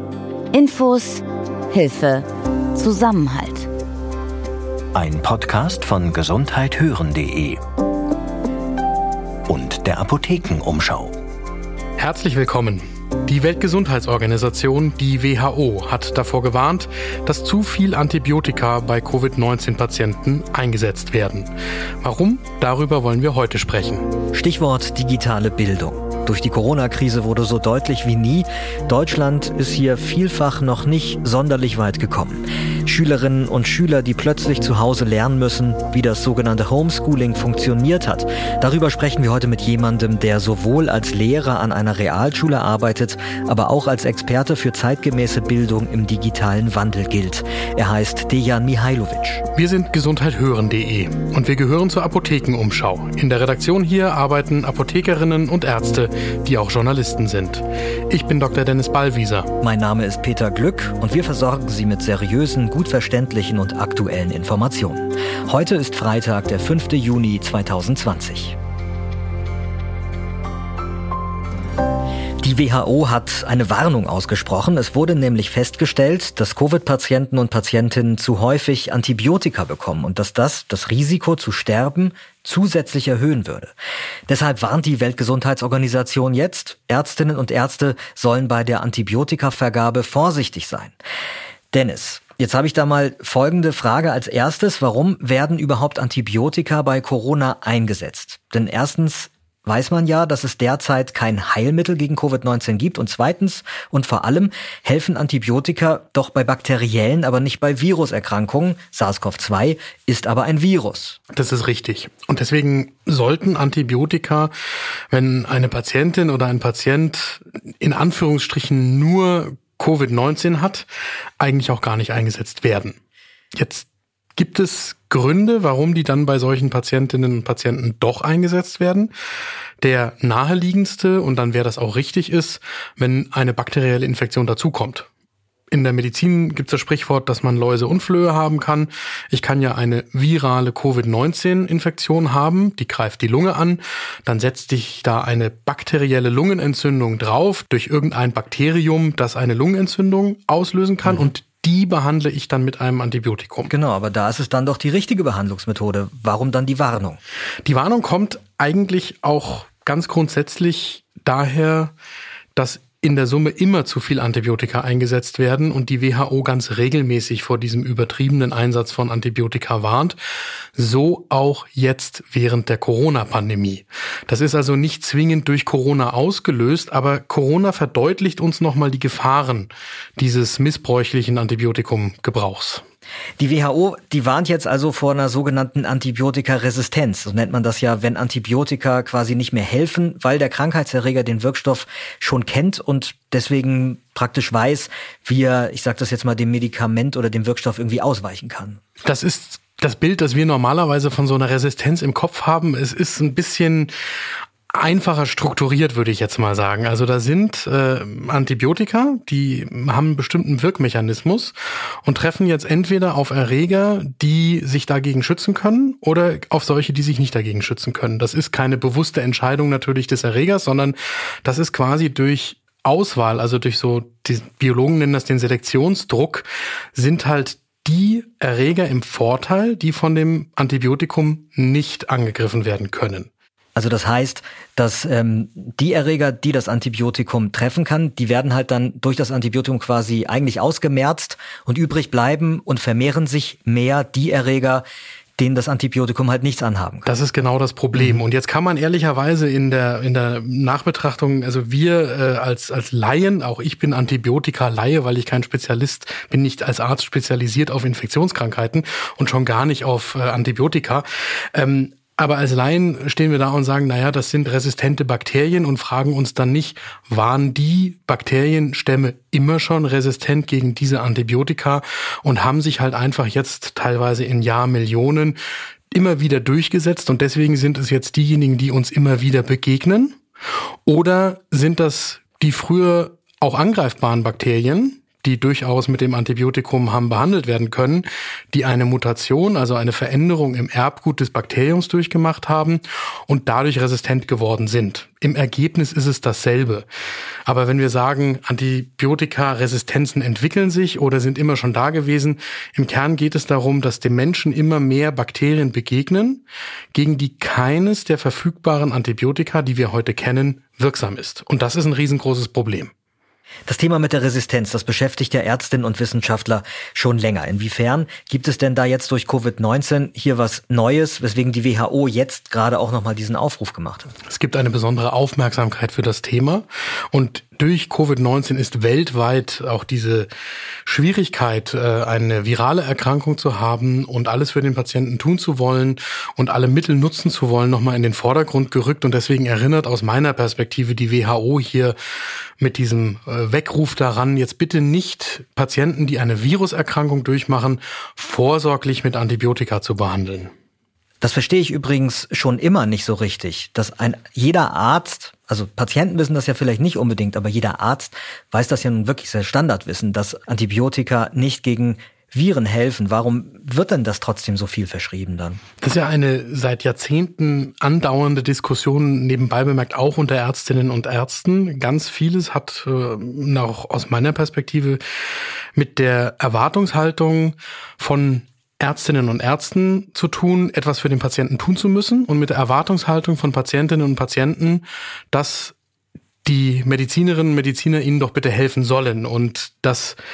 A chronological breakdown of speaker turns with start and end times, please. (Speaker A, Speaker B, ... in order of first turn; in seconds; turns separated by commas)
Speaker A: 0.5-3.7, Speaker B: 4.9-7.6, Speaker B: 9.5-11.1, Speaker C: 12.0-21.5, Speaker C: 22.0-24.1, Speaker D: 24.3-49.5, Speaker C: 49.5-59.5, Speaker D: 59.6-68.5, Speaker D: 72.4-83.7, Speaker D: 84.3-90.9, Speaker D: 91.7-111.2, Speaker C: 111.3-114.5, Speaker C: 115.1-120.9, Speaker C: 121.4-123.0, Speaker C: 123.5-129.1, Speaker C: 129.8-135.1, Speaker C: 135.7-153.7, Speaker D: 153.7-157.2, Speaker C: 157.7-161.9, Speaker C: 162.6-170.2, Speaker C: 170.8-182.8, Speaker D: 183.4-198.8, Speaker C: 199.0-203.9, Speaker C: 204.7-233.3, Speaker D: 233.8-244.8, Speaker D: 245.4-247.1, Speaker C: 247.1-275.4, Speaker D: 247.9-248.2, Speaker C: 275.9-280.2, Speaker C: 280.9-296.9, Speaker C: 297.4-306.4, Speaker C: 306.9-312.9, Speaker D: 313.7-324.1, Speaker C: 324.3-330.3, Speaker C: 330.9-341.9, Speaker C: 342.6-350.5, Speaker D: 351.2-365.6, Speaker C: 365.8-375.0, Speaker C: 375.8-385.7, Speaker C: 386.4-390.2